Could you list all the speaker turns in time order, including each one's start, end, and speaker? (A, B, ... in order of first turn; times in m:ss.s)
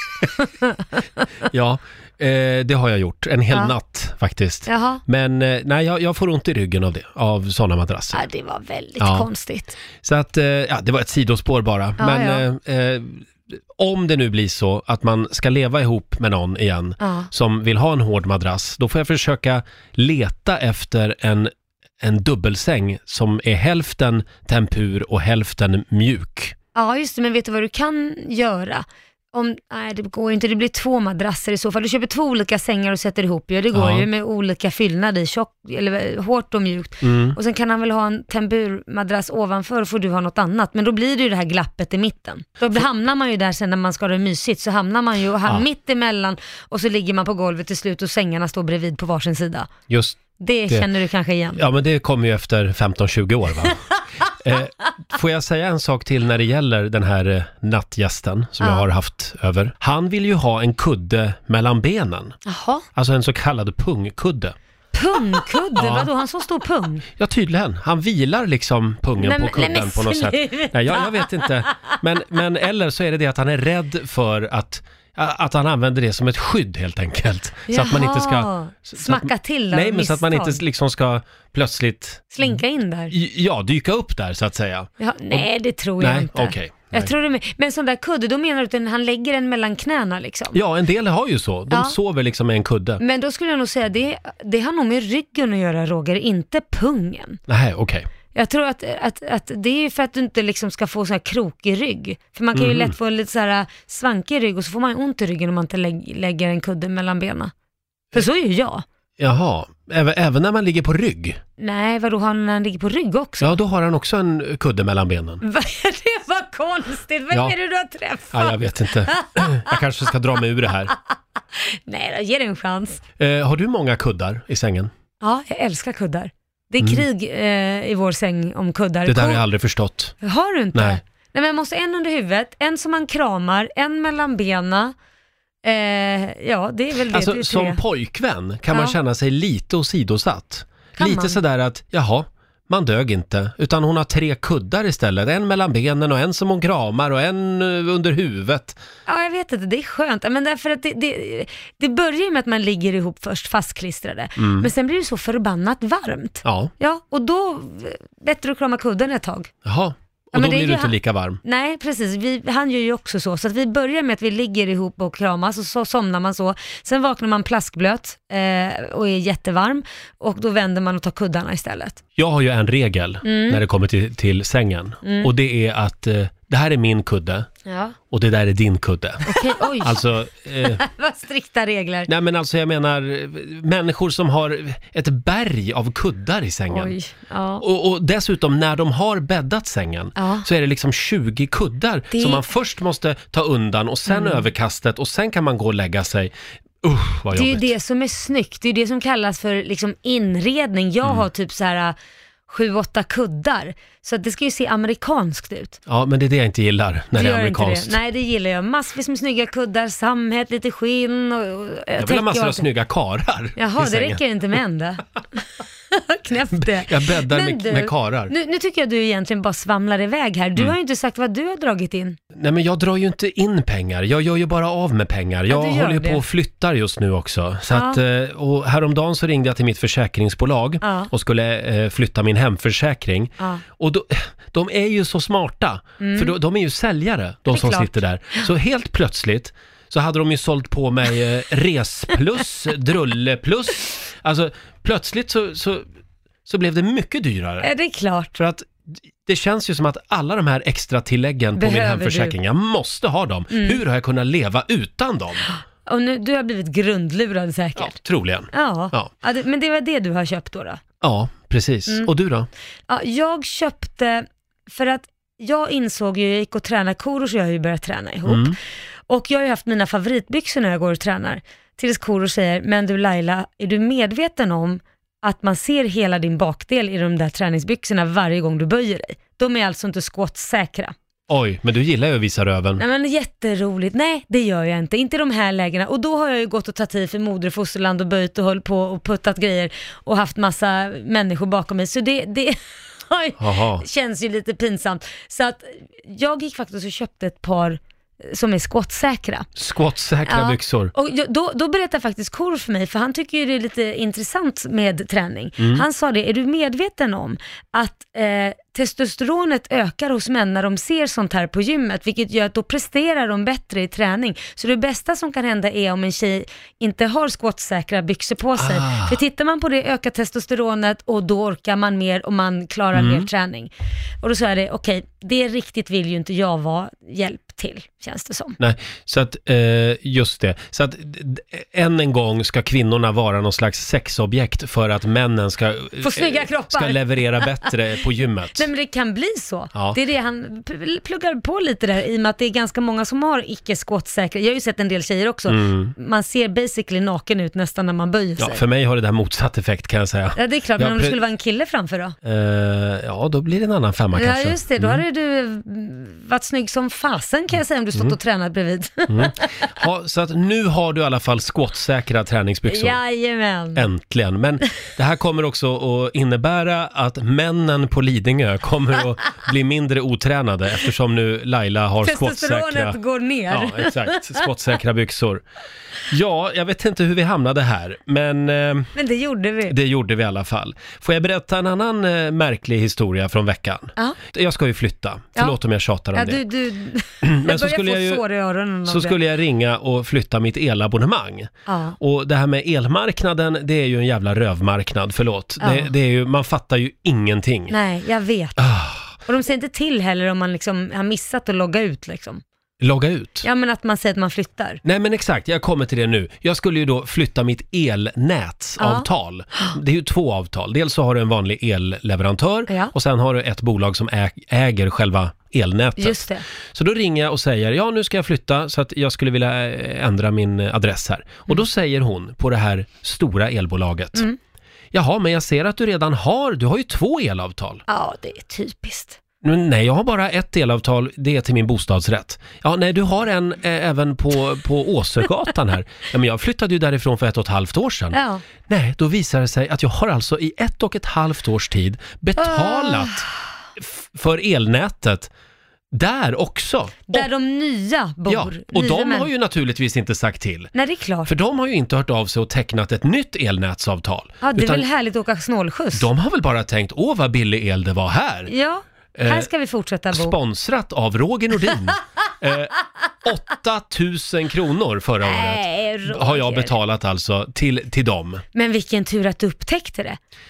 0:00.2-0:01.3 A
0:01.5-0:08.2 B
0:04.7-0:05.0 A
0:08.1-0:09.8 A
0:09.0-0:09.3 B
0:10.0-0:26.6 B
0:12.0-0:12.4 A
0:17.0-0:17.3 A
0:26.8-0:49.7 A
0:33.7-0:34.1 B
0:37.0-0:37.4 B
0:49.9-0:50.9 B
0:50.4-0:51.6 A
0:51.6-1:02.4 B
0:58.6-0:58.9 A
1:02.4-1:02.8 A
1:03.0-1:04.6 B
1:04.9-1:07.0 A
1:05.8-1:06.1 B
1:07.1-1:22.6 B
1:09.2-1:12.0 A
1:17.7-1:20.6 A
1:22.3-1:23.1 A
1:23.1-1:25.5 B
1:25.0-1:30.6 A
1:26.0-1:27.1 B
1:30.5-1:33.0 B
1:31.7-1:32.0 A
1:33.0-1:37.4 A
1:37.5-1:38.1 B
1:38.3-1:47.5 A
1:42.5-1:42.9 B
1:48.1-1:48.8 A
1:49.2-1:51.4 B
1:51.6-1:53.6 A
1:53.4-1:55.4 B
1:55.4-1:59.8 A
1:58.3-2:00.9 B
2:01.6-2:03.0 A
2:03.2-2:04.9 B
2:05.2-2:09.4 A
2:06.8-2:07.0 B
2:09.1-2:10.2 B
2:10.2-2:15.0 A
2:10.7-2:11.0 B
2:15.6-2:17.8 A
2:17.1-2:28.8 B
2:21.0-2:21.4 A
2:29.1-2:39.5 A
2:34.4-2:34.7 B
2:36.4-2:36.7 B
2:39.6-2:41.4 B
2:40.3-2:52.0 A
2:52.2-2:57.5 B
2:53.2-2:53.6 A
2:55.0-2:55.3 A
2:57.7-2:58.0 A
2:58.1-3:00.8 B
2:59.3-3:00.0 A
3:00.6-3:02.1 A
3:02.1-3:06.9 B
3:06.7-3:07.6 A
3:07.6-3:17.7 B
3:10.2-3:10.5 A
3:12.1-3:12.4 A
3:14.1-3:14.5 A
3:17.3-3:22.0 A
3:22.5-3:25.8 A
3:25.9-3:28.0 B
3:27.1-3:32.7 A
3:32.0-3:34.2 B
3:33.6-3:42.2 A
3:36.5-3:38.3 B
3:42.3-4:05.9 B
3:45.5-3:46.2 A
3:47.7-3:48.0 A
3:50.8-3:51.1 A
3:56.0-3:56.4 A
3:57.5-3:58.5 A
4:06.5-4:07.7 B
4:07.6-4:08.4 A
4:08.4-4:15.5 B
4:11.6-4:12.4 A
4:13.5-4:13.8 A
4:15.5-4:18.0 A
4:17.8-4:19.1 B
4:18.5-4:20.8 A
4:21.0-4:22.5 B
4:22.9-4:28.6 A
4:28.3-4:28.6 B
4:29.1-4:40.9 A
4:41.3-4:42.8 B
4:42.8-4:59.5 A
4:53.4-4:53.8 B
4:59.6-5:00.9 B
5:00.2-5:28.6 A
5:05.6-5:05.8 B
5:18.6-5:19.2 B
5:22.9-5:23.3 B
5:28.6-5:38.7 B
5:36.0-5:37.7 A
5:38.6-5:48.6 A
5:45.5-5:45.9 B
5:48.4-5:51.2 B
5:50.4-5:52.2 A
5:52.2-5:55.0 B
5:54.1-5:59.7 A
5:59.1-6:03.0 B
6:02.7-6:03.9 A
6:03.8-6:13.0 B
6:12.0-6:14.5 A
6:13.5-6:15.4 B
6:16.1-6:19.0 B
6:19.0-6:19.8 A
6:19.7-6:26.4 B
6:26.1-6:29.2 A
6:27.2-6:28.2 B
6:28.9-6:37.8 B
6:31.7-6:32.0 A
6:35.6-6:35.9 A
6:37.7-6:38.6 A
6:38.6-6:39.2 B
6:39.2-6:42.4 A
6:42.8-6:43.5 B
6:43.4-6:44.8 A
6:44.8-7:04.3 B
6:48.8-6:49.8 A
6:52.7-6:52.9 A
6:56.0-6:56.4 A
7:04.9-7:07.8 B
7:07.9-7:09.2 A
7:09.4-7:25.3 B
7:18.1-7:18.4 A
7:22.4-7:23.4 A
7:25.9-7:27.3 B
7:27.1-7:29.3 A
7:28.3-7:30.7 B
7:30.7-7:31.3 A
7:31.3-7:34.9 B
7:34.4-7:36.1 A
7:35.9-7:38.5 B
7:38.5-7:40.4 A
7:39.2-7:39.5 B
7:40.1-7:48.4 B
7:45.2-7:46.7 A
7:48.5-7:50.2 A